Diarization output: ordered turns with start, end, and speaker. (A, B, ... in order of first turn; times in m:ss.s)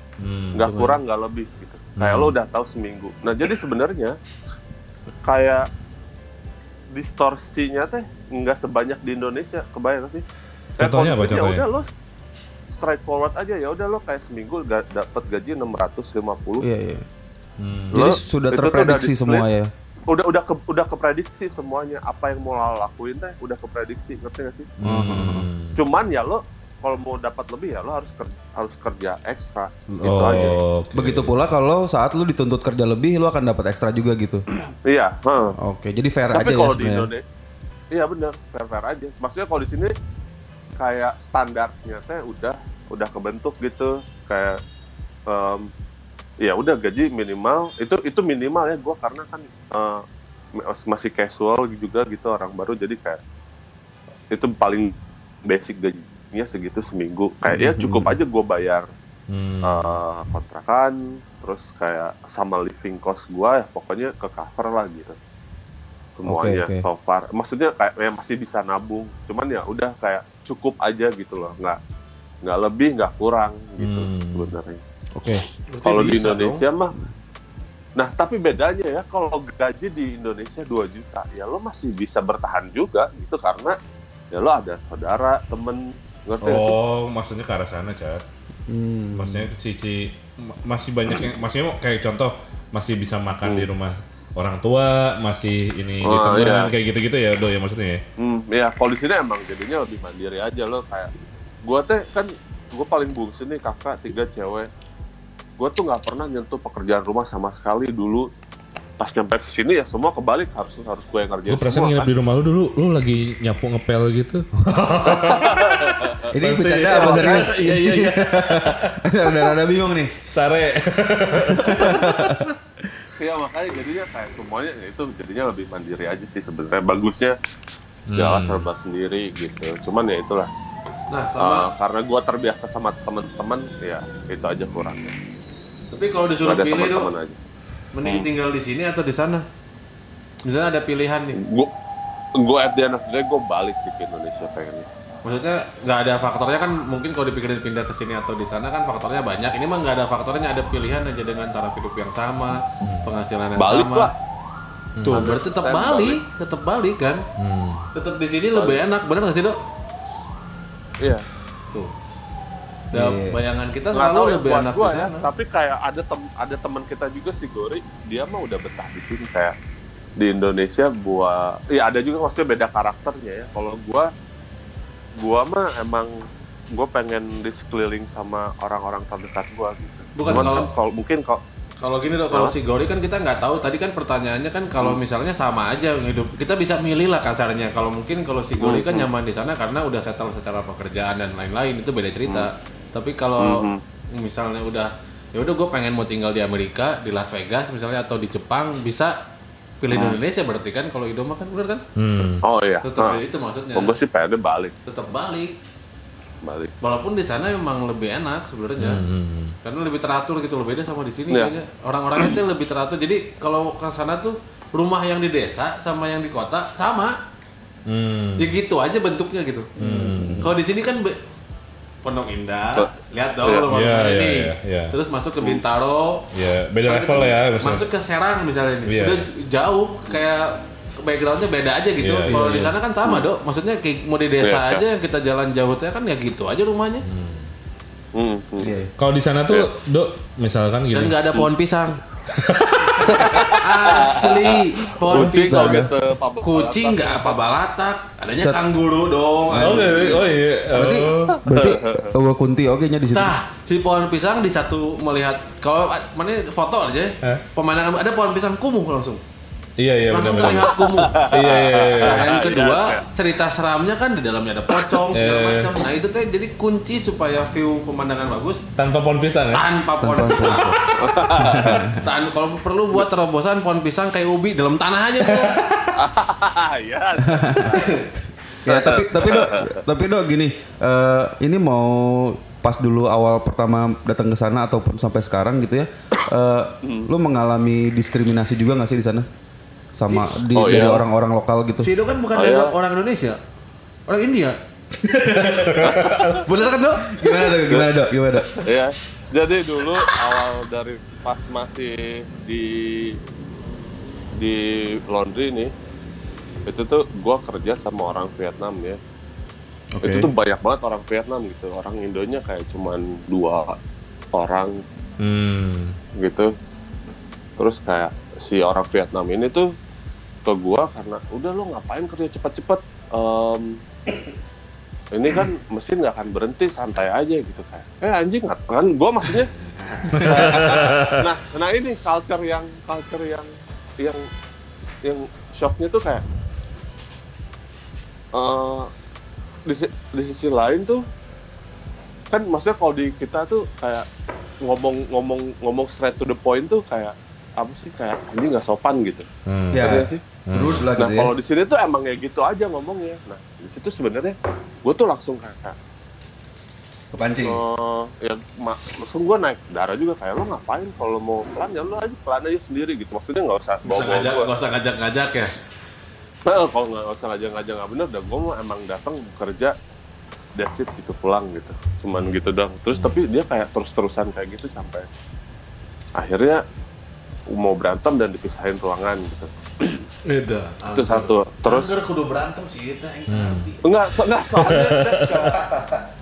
0:00.2-0:00.7 A
0:00.6-0:04.2 B
0:00.7-0:00.9 C
0:02.0-0:02.4 A
0:05.2-0:05.7 B
0:06.9-0:10.2 B
0:10.8-0:11.9 B
0:10.8-0:11.6 A
0:12.7-0:16.6 B
0:16.6-0:17.0 D
0:17.6-0:18.2 A
0:17.9-0:19.4 B
0:17.9-0:19.7 D
0:20.1-0:24.7 B
0:24.8-0:25.8 A
0:24.8-0:25.5 D
0:25.8-0:30.6 B
0:30.0-0:31.3 A
0:30.3-0:34.4 D
0:34.8-0:35.6 B
0:35.6-0:37.1 D
0:36.3-0:37.2 B
0:37.9-0:39.9 B
0:40.8-0:44.6 B
0:45.3-0:45.7 B
0:46.4-0:50.0 B
0:50.6-0:53.2 B
0:54.3-0:54.9 B
0:55.5-0:58.9 B
0:57.5-0:58.1 D
0:59.3-1:00.0 A
0:59.7-1:05.2 B
1:06.2-1:11.8 B
1:06.3-1:06.8 D
1:12.4-1:14.8 B
1:13.8-1:14.5 A
1:15.2-1:15.4 D
1:15.7-1:16.6 C
1:15.8-1:16.9 B
1:18.0-1:23.8 B
1:24.3-1:26.8 B
1:26.4-1:28.2 A
1:28.7-1:29.5 D
1:29.2-1:38.0 A
1:36.0-1:36.7 B
1:38.2-1:41.1 B
1:41.7-1:44.7 B
1:45.6-1:48.3 B
1:49.0-1:52.1 B
1:51.5-1:59.4 A
1:55.0-1:56.3 B
1:56.3-2:00.1 D
1:56.9-1:57.3 B
2:00.3-2:02.5 A
2:01.5-2:02.8 D
2:03.2-2:07.4 B
2:08.1-2:08.6 A
2:08.1-2:10.5 B
2:11.1-2:11.7 C
2:11.4-2:15.1 B
2:15.9-2:17.1 C
2:16.4-2:17.4 B
2:17.9-2:19.4 C
2:20.4-2:21.4 C
2:21.4-2:21.7 B
2:22.4-2:24.9 B
2:25.2-2:34.1 C
2:32.8-2:33.1 A
2:33.6-2:34.1 B
2:35.0-2:37.2 C
2:35.0-2:35.3 A
2:35.1-2:36.2 B
2:37.4-2:37.9 A
2:37.9-2:39.6 C
2:38.5-2:38.8 B
2:42.9-2:43.4 D
2:42.9-2:45.3 C
2:43.9-2:49.5 B
2:50.2-2:54.1 B
2:55.2-2:56.1 B
2:56.8-3:01.4 B
3:00.1-3:00.7 C
3:00.2-3:00.7 A
3:01.8-3:19.1 C
3:08.6-3:09.1 B
3:13.4-3:13.8 B
3:19.8-3:21.8 C
3:19.9-3:20.2 B
3:22.0-3:22.4 A
3:22.4-3:23.2 B
3:22.8-3:24.0 C
3:23.8-3:24.7 B
3:24.9-3:25.5 C
3:26.4-3:26.7 B
3:26.8-3:29.0 C
3:28.8-3:29.6 A
3:29.6-3:37.1 C
3:37.9-3:38.6 A
3:38.4-3:39.7 C
3:39.8-3:40.5 D
3:39.8-3:40.5 A
3:40.4-3:41.2 C
3:42.0-3:46.3 C
3:43.7-3:44.9 A
3:46.3-3:47.9 A
3:46.9-3:57.0 C
3:48.8-3:49.2 A
3:52.0-3:52.8 A
3:54.4-3:54.8 B
3:57.0-3:57.5 A
3:58.2-3:58.7 B
3:58.6-3:58.9 D
3:59.0-4:01.2 A
4:00.9-4:02.0 C
4:02.3-4:03.3 A
4:03.0-4:07.4 B
4:03.6-4:05.8 C
4:05.1-4:05.9 D
4:06.4-4:10.3 C
4:09.5-4:10.2 D
4:09.6-4:11.4 A
4:10.7-4:13.4 D
4:11.5-4:12.1 B
4:13.1-4:19.2 C
4:19.8-4:22.3 A
4:20.1-4:21.2 C
4:20.9-4:23.0 B
4:22.0-4:28.6 C
4:25.1-4:25.8 A
4:28.8-4:29.6 A
4:29.5-4:30.8 C
4:30.0-4:30.8 D
4:31.0-4:31.8 B
4:31.4-4:31.9 D
4:31.6-4:35.6 C
4:35.3-4:35.8 A
4:36.0-4:37.8 B
4:37.3-4:37.8 D
4:37.8-4:38.0 C
4:38.6-4:49.3 D
4:38.7-4:39.8 B
4:50.0-4:51.9 D
4:50.1-4:50.9 C
4:50.6-4:51.0 B
4:51.8-4:53.4 C
4:52.4-4:52.7 B
4:54.1-4:57.8 C
4:55.5-4:56.4 A
4:57.0-4:58.5 D
4:58.6-5:03.2 B
5:04.4-5:05.7 B
5:06.6-5:09.0 B
5:09.9-5:10.3 D
5:10.0-5:13.7 B
5:14.4-5:14.8 B
5:15.2-5:16.0 A
5:16.2-5:16.5 B
5:17.6-5:19.7 B
5:20.5-5:23.7 B
5:25.2-5:29.5 B
5:29.8-5:30.8 C
5:30.1-5:31.2 A
5:30.3-5:33.5 B
5:35.0-5:36.2 B
5:38.4-5:38.9 B
5:39.7-5:41.0 B
5:42.3-5:44.1 B
5:44.6-5:49.2 B
5:49.5-5:49.9 A
5:49.7-5:51.3 D
5:49.8-5:50.2 B
5:50.5-5:50.8 A
5:51.0-5:55.8 B
5:57.1-5:57.6 D
5:57.5-6:04.5 B
6:03.8-6:05.5 C
6:06.5-6:09.7 B
6:10.6-6:15.1 B
6:12.1-6:13.2 A
6:16.2-6:16.6 B
6:17.5-6:20.0 B
6:20.2-6:23.8 C
6:20.9-6:22.0 B
6:23.3-6:23.7 A
6:23.8-6:25.7 B
6:24.5-6:25.5 A